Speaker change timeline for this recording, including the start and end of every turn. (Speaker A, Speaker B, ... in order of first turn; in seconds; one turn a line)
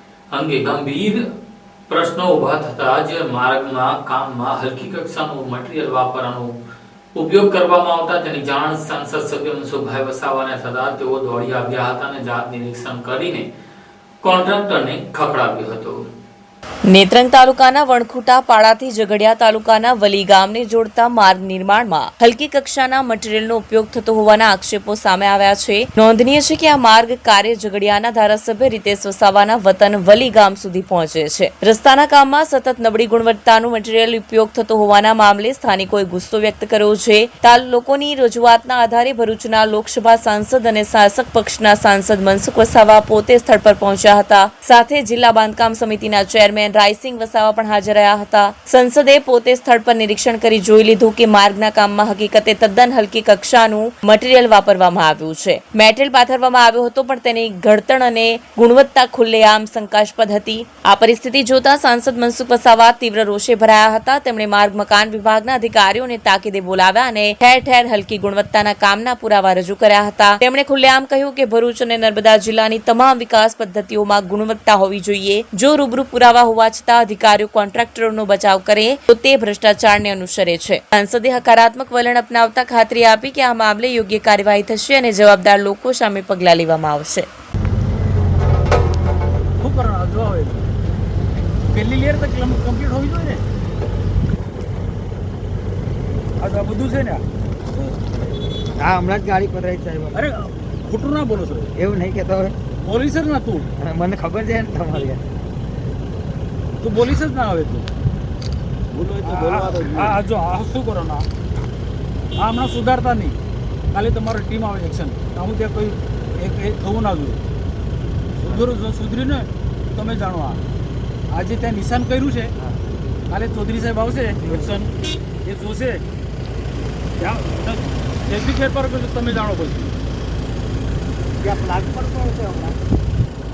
Speaker A: 0.3-1.2
Speaker A: 1.9-6.5
Speaker A: 7.2-13.5
Speaker A: 14.2-16.1
Speaker B: 16.9-87.3
Speaker C: 89.6-90.7
Speaker C: 91.7-93.4
Speaker C: 96.4-98.0
Speaker D: 98.7-100.2
Speaker C: 100.1-101.7
Speaker D: 101.8-102.6
Speaker C: 102.8-103.7
Speaker D: 103.8-105.2
Speaker C: 106.8-107.9
Speaker C: 108.9-111.2
Speaker D: 109.2-110.2
Speaker C: 112.4-113.4
Speaker C: 113.9-117.4
Speaker C: 118.4-120.6
Speaker C: 121.3-122.5
Speaker C: 123.3-124.9
Speaker D: 124.4-124.7
Speaker C: 125.4-126.0
Speaker C: 127.2-129.9
Speaker D: 131.4-132.8